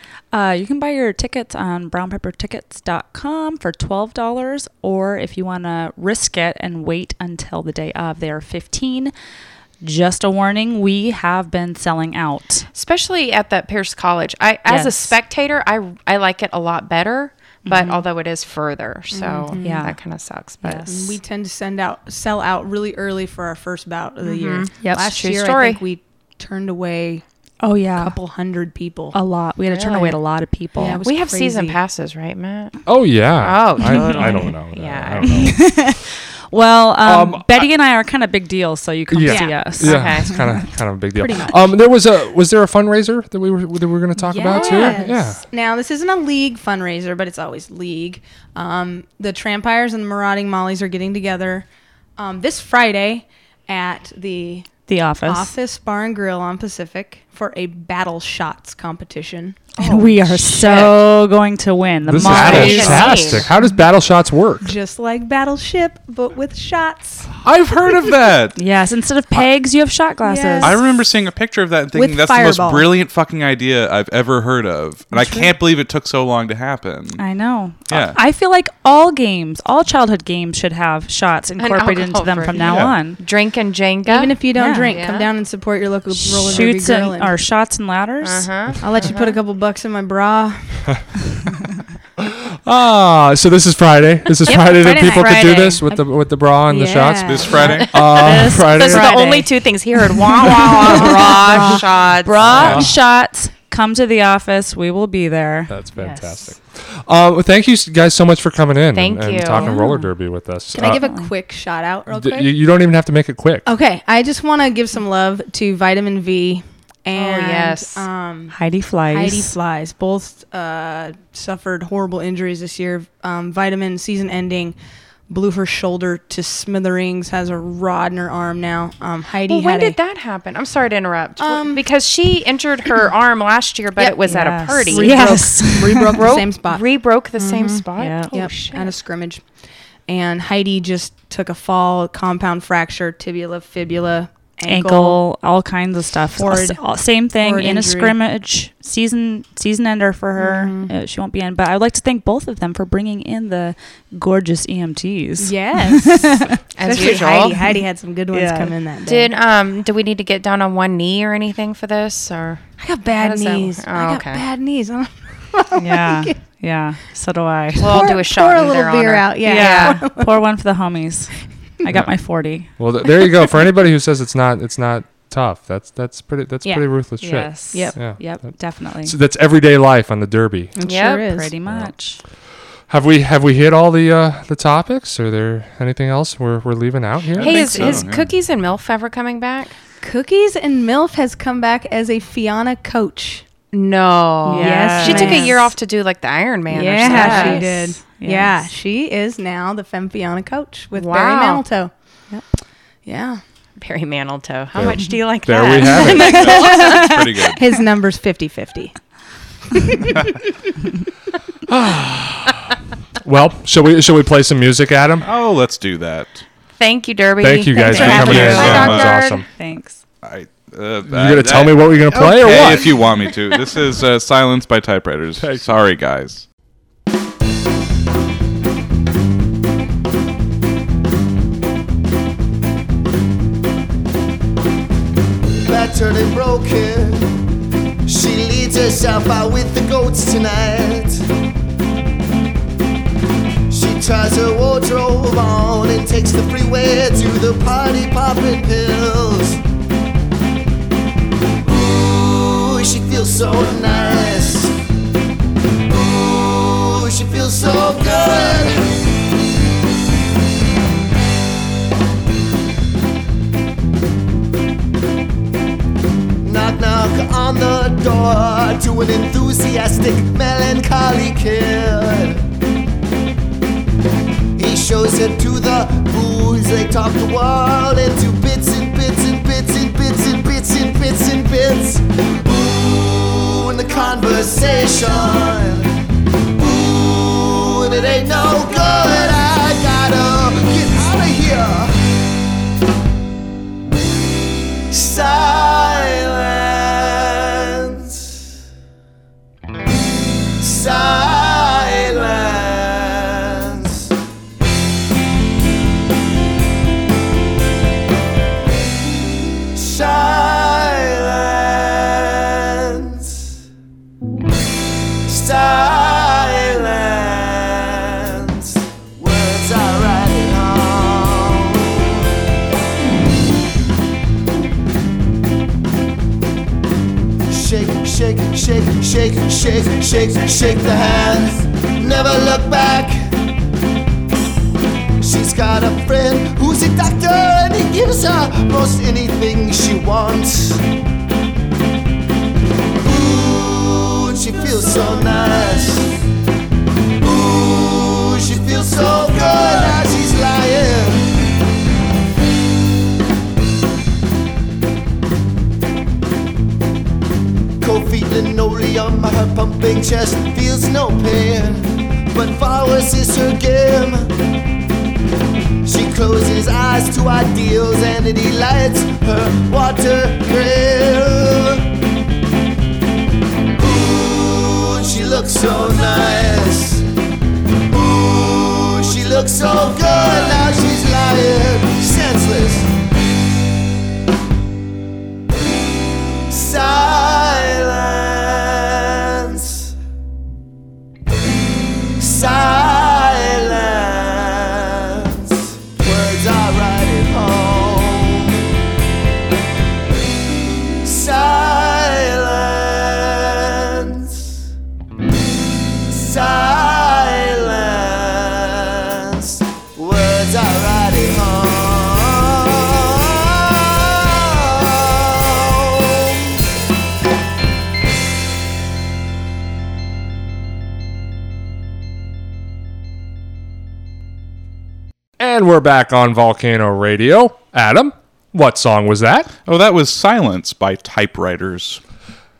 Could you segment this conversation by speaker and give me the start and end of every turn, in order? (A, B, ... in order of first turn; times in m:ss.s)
0:00.3-0:09.1 A
0:09.8-0:12.7 A
0:12.7-0:21.2 B
0:14.6-0:15.2 A
0:17.6-0:18.0 A
0:19.1-0:19.9 C
0:19.4-0:20.0 A
0:20.6-0:21.0 A
0:20.8-0:27.2 C
0:24.2-0:25.8 B
0:24.8-0:25.1 A
0:27.6-0:28.2 A
0:28.0-0:29.1 C
0:29.1-0:31.1 A
0:29.7-0:30.2 B
0:30.7-0:31.8 C
0:30.8-0:32.8 B
0:32.8-0:35.6 D
0:33.4-0:35.5 B
0:33.8-0:34.5 A
0:35.2-0:40.6 A
0:37.0-0:37.7 D
0:39.1-0:45.4 D
0:39.3-0:39.8 C
0:39.8-0:40.4 B
0:41.2-0:41.6 C
0:44.2-0:51.6 C
0:44.5-0:45.0 B
0:52.2-0:54.7 C
0:54.9-0:55.5 A
0:55.2-1:00.9 C
0:59.8-1:03.4 A
1:00.5-1:00.9 B
1:02.1-1:04.7 D
1:02.2-1:03.5 B
1:02.5-1:03.8 C
1:04.6-1:07.3 C
1:07.4-1:08.6 E
1:08.6-1:10.8 A
1:10.2-1:10.8 C
1:10.6-1:17.2 E
1:11.9-1:12.8 C
1:17.2-1:23.2 A
1:17.9-1:18.2 E
1:21.6-1:25.3 B
1:22.5-1:23.1 E
1:24.1-1:27.3 C
1:24.5-1:25.0 A
1:26.1-1:28.7 A
1:28.2-1:29.4 B
1:28.8-1:30.7 C
1:32.2-1:37.4 D
1:34.5-1:35.8 C
1:34.5-1:35.5 B
1:34.6-1:35.9 A
1:36.7-1:37.8 C
1:37.2-1:37.9 E
1:37.5-1:42.8 B
1:37.9-1:39.1 D
1:38.2-1:39.7 A
1:40.4-1:46.4 A
1:40.5-1:41.8 C
1:42.5-1:42.9 D
1:45.7-1:51.0 D
1:48.9-1:49.8 B
1:49.5-1:50.1 A
1:50.7-1:52.5 C
1:50.8-1:51.3 A
1:52.1-1:53.7 D
1:53.6-1:58.5 C
1:57.1-1:58.0 B
1:58.5-1:59.6 A
1:59.1-2:04.8 C
2:05.3-2:10.0 C
2:09.4-2:15.4 B
2:11.4-2:11.8 C
2:14.2-2:16.3 A
2:14.7-2:16.8 C
2:16.2-2:18.9 B
2:17.4-2:19.4 C
2:18.0-2:18.4 A
2:20.1-2:25.2 C
2:24.6-2:36.6 A
2:26.4-2:28.2 C
2:30.4-2:30.9 B
2:35.4-2:39.3 C
2:36.7-2:37.6 B
2:38.3-2:38.8 A
2:39.0-2:42.6 B
2:42.8-2:46.4 C
2:43.1-2:44.4 B
2:45.8-2:48.1 A
2:47.8-2:50.0 B
2:47.8-2:50.4 C
2:49.4-2:51.3 A
2:51.8-2:52.7 A
2:52.8-2:58.2 D
2:57.2-2:59.2 A
2:57.7-2:58.1 C
2:59.0-3:00.7 D
3:00.8-3:01.5 C
3:00.8-3:01.3 B
3:01.2-3:02.2 A
3:02.9-3:07.6 D
3:07.3-3:08.3 E
3:07.4-3:09.7 B
3:10.0-3:13.4 C
3:13.7-3:17.9 B
3:14.5-3:15.7 C
3:14.5-3:15.7 A
3:16.7-3:21.9 C
3:17.0-3:18.7 A
3:20.9-3:21.6 B
3:23.0-3:23.4 C
3:23.8-3:27.1 B
3:24.8-3:26.4 D
3:26.1-3:28.9 C
3:26.2-3:27.6 E
3:29.9-3:30.1 C
3:31.7-3:32.6 D
3:33.2-3:35.3 D
3:35.2-3:36.4 E
3:36.8-3:39.4 B
3:37.4-3:39.4 D
3:37.8-3:38.6 C
3:37.9-3:40.0 A
3:38.2-3:39.1 E
3:40.2-3:46.4 E
3:41.1-3:42.9 D
3:45.4-3:45.7 D
3:55.6-3:57.3 F
3:58.0-4:01.2 F
4:03.7-4:09.6 F
4:11.6-4:14.8 F
4:15.8-4:18.8 F
4:26.4-4:32.4 F
4:34.6-4:45.9 F
4:46.6-4:52.0 F
4:54.9-4:58.4 F
5:00.6-5:04.1 F
5:09.7-5:13.5 F
5:15.2-5:22.2 F
5:27.5-5:33.3 F
5:35.2-5:40.8 F
5:43.0-5:46.2 F
5:47.2-5:51.3 F
5:57.8-6:04.3 F
6:05.8-6:11.9 F
6:13.7-6:17.0 F
6:17.9-6:22.9 F
6:26.5-6:29.9 F
6:32.2-6:38.7 F
6:41.0-6:44.7 F
6:46.1-6:56.6 F
7:05.4-7:09.5 D
7:09.6-7:12.0 E